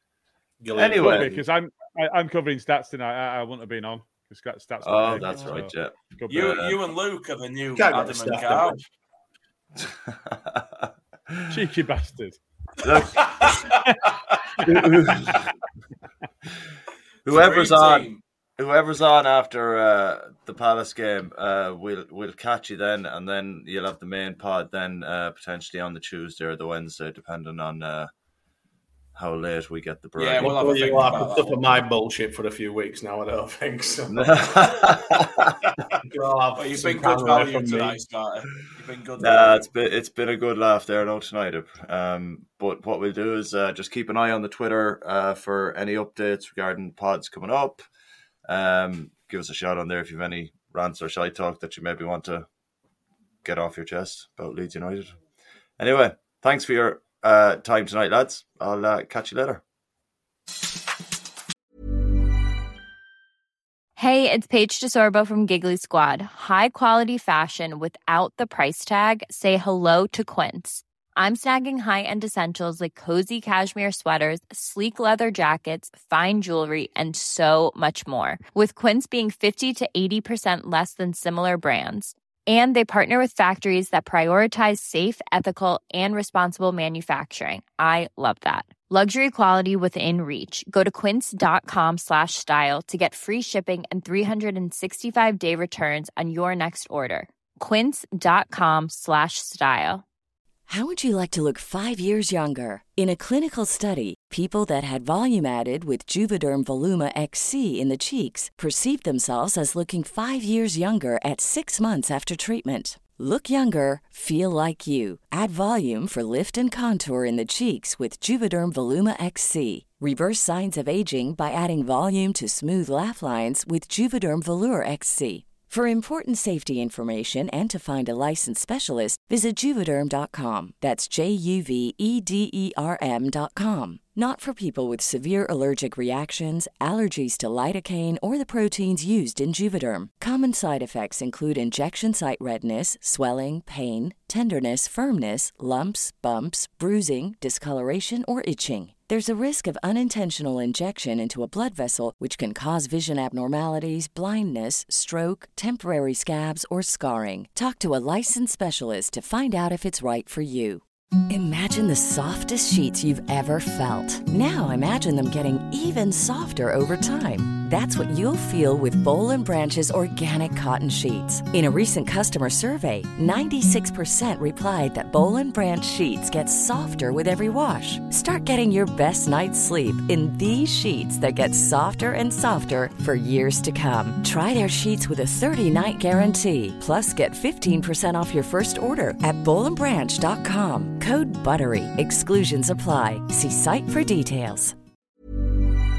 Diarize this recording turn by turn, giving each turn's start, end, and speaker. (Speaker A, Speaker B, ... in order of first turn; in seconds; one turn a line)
Speaker A: 0.6-1.4
Speaker B: 0.7-1.4
Speaker C: 1.0-6.6
Speaker B: 4.8-6.8
Speaker D: 6.3-8.8
Speaker A: 7.8-8.8
Speaker B: 9.8-11.5
Speaker C: 11.5-12.4
Speaker B: 12.8-13.5
Speaker B: 14.6-15.4
Speaker D: 17.2-18.2
Speaker B: 17.3-28.1
Speaker B: 29.1-31.1
Speaker D: 30.2-31.6
Speaker A: 30.4-34.5
Speaker B: 34.1-35.6
Speaker A: 36.0-38.0
Speaker D: 36.6-39.7
Speaker B: 39.2-47.8
Speaker B: 48.5-52.5
Speaker B: 53.4-55.2
Speaker B: 55.8-59.6
Speaker E: 64.0-100.0
Speaker F: 100.7-194.8